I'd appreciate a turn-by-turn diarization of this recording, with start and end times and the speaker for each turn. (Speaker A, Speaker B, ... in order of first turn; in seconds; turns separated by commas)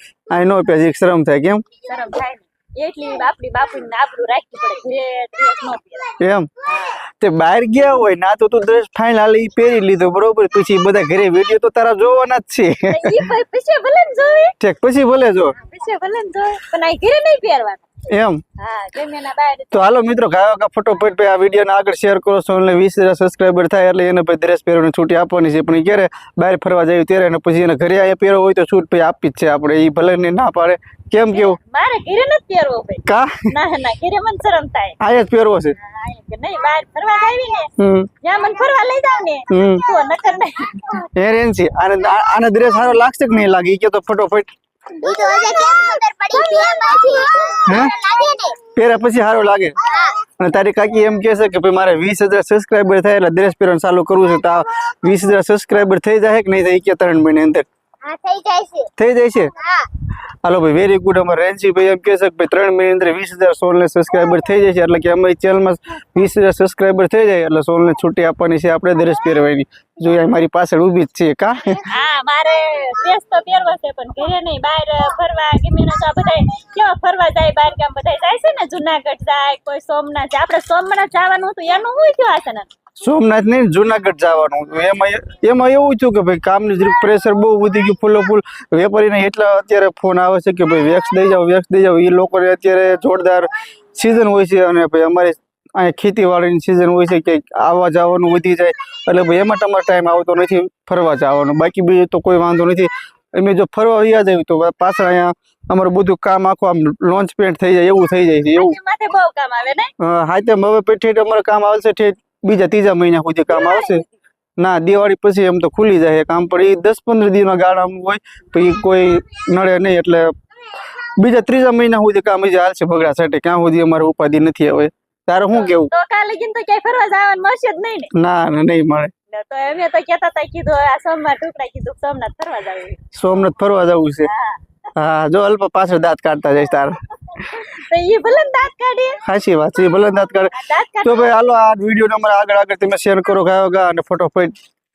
Speaker A: 0.3-1.6, Speaker B: 1.8-7.0, Speaker A: 6.2-6.5, Speaker A: 7.1-13.2, Speaker B: 12.9-14.5, Speaker A: 14.6-15.5, Speaker B: 15.5-17.8, Speaker A: 18.1-18.4, Speaker B: 18.6-19.9, Speaker A: 19.7-31.6, Speaker B: 31.2-35.0, Speaker A: 33.0-33.5, Speaker A: 35.0-35.8, Speaker B: 35.8-37.7, Speaker A: 37.8-38.1, Speaker B: 38.2-41.0, Speaker A: 39.5-39.8, Speaker C: 39.5-41.1, Speaker A: 41.1-44.5, Speaker C: 45.0-48.6, Speaker B: 46.3-47.3, Speaker A: 47.6-47.9, Speaker A: 48.7-49.8, Speaker C: 49.8-50.2, Speaker A: 50.4-57.7, Speaker C: 58.0-58.9, Speaker A: 59.0-59.5, Speaker C: 59.5-59.9, Speaker A: 60.4-71.8, Speaker B: 71.8-82.7, Speaker A: 83.0-108.8, Speaker B: 108.5-109.9, Speaker A: 110.0-114.0, Speaker B: 113.5-114.1, Speaker A: 114.6-120.3, Speaker A: 121.0-125.9, Speaker B: 125.5-128.1, Speaker A: 128.1-129.1, Speaker B: 129.3-133.0, Speaker A: 133.1-134.3, Speaker B: 134.2-134.6, Speaker A: 134.9-137.0, Speaker B: 137.5-139.2, Speaker A: 139.2-144.5, Speaker B: 140.5-141.6